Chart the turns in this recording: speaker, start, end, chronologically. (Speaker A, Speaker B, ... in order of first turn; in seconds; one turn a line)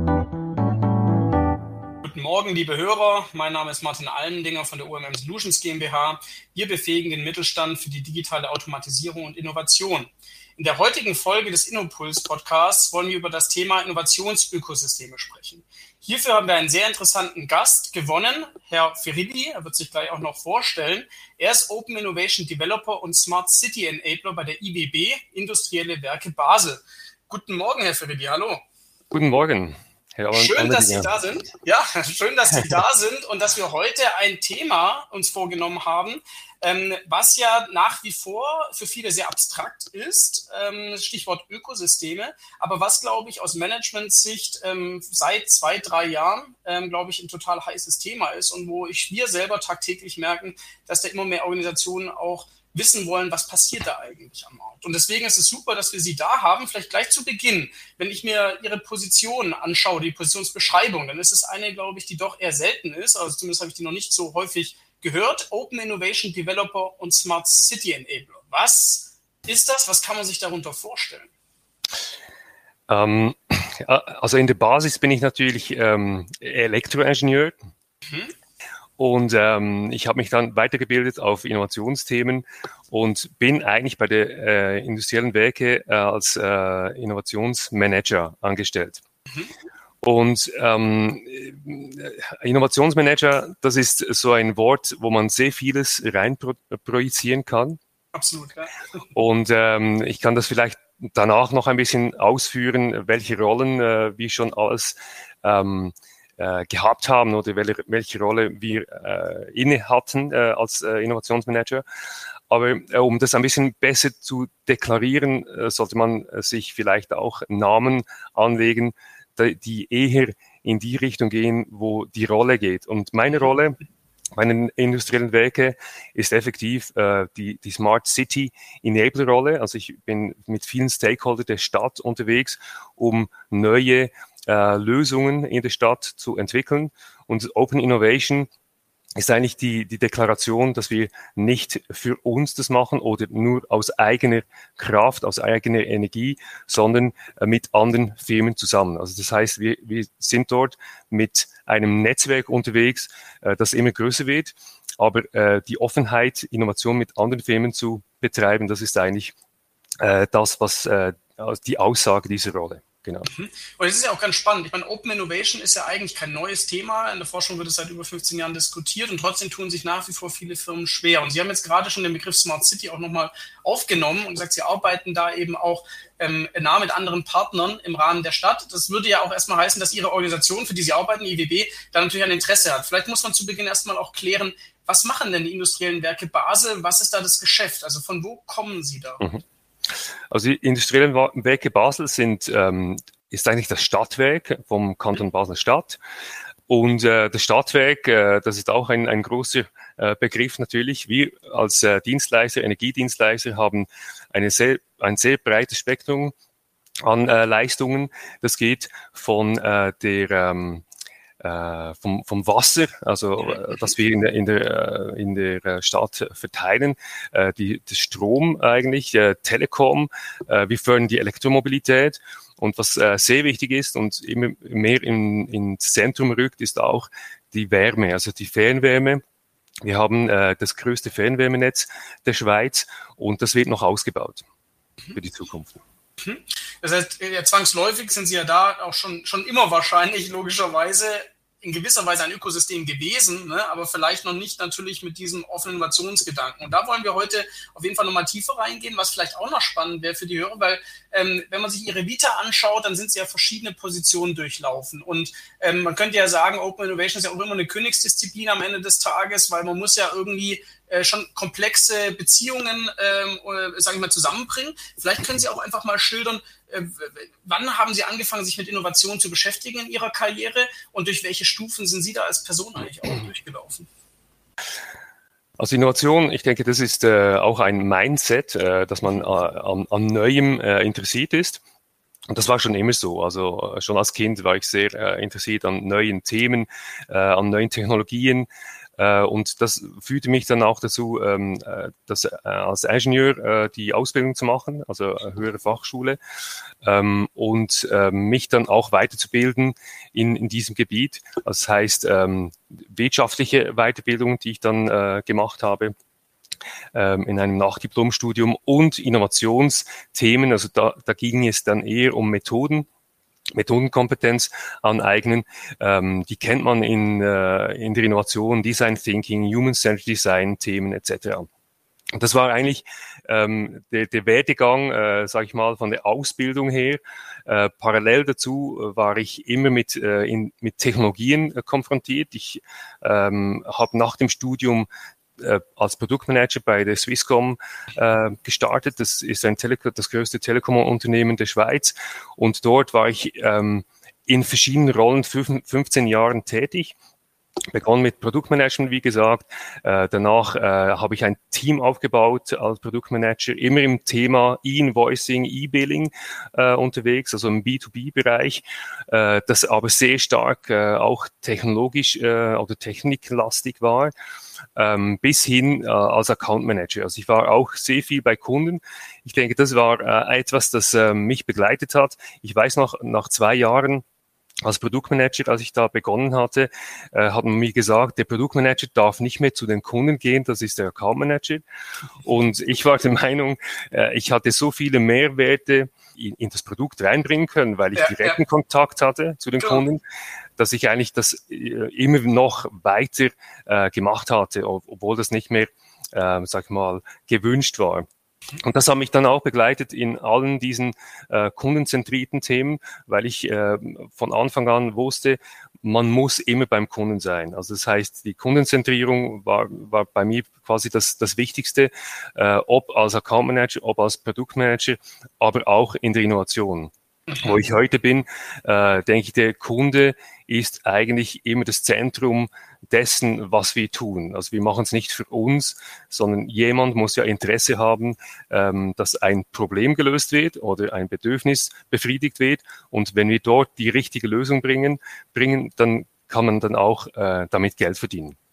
Speaker A: 2.0-28.6
Speaker B: 29.1-31.1
Speaker A: 30.3-71.3
Speaker B: 72.9-77.5
Speaker A: 78.1-78.3
Speaker B: 79.0-89.0
Speaker A: 89.3-89.5
Speaker B: 90.0-97.8
Speaker A: 98.1-98.8
Speaker B: 99.1-111.8
Speaker B: 112.5-123.8
Speaker B: 124.3-138.5
Speaker B: 139.2-159.3
Speaker B: 160.0-163.3
Speaker A: 163.3-189.2
Speaker B: 190.3-196.0
Speaker B: 196.7-206.3
Speaker B: 207.0-210.8
Speaker B: 211.4-229.2
Speaker B: 229.8-234.4
Speaker B: 235.2-235.8
Speaker A: 236.2-273.9
Speaker B: 275.6-281.6
Speaker B: 282.3-296.2
Speaker B: 296.8-305.9
Speaker B: 306.9-312.9
Speaker B: 313.5-321.5
Speaker B: 322.1-334.9
Speaker B: 335.4-346.9
Speaker B: 347.7-364.1
Speaker B: 364.8-374.0
Speaker B: 374.6-381.6
Speaker B: 382.2-390.0
Speaker A: 388.0-388.4
Speaker B: 390.6-398.1
Speaker B: 398.6-438.4
Speaker A: 417.3-417.6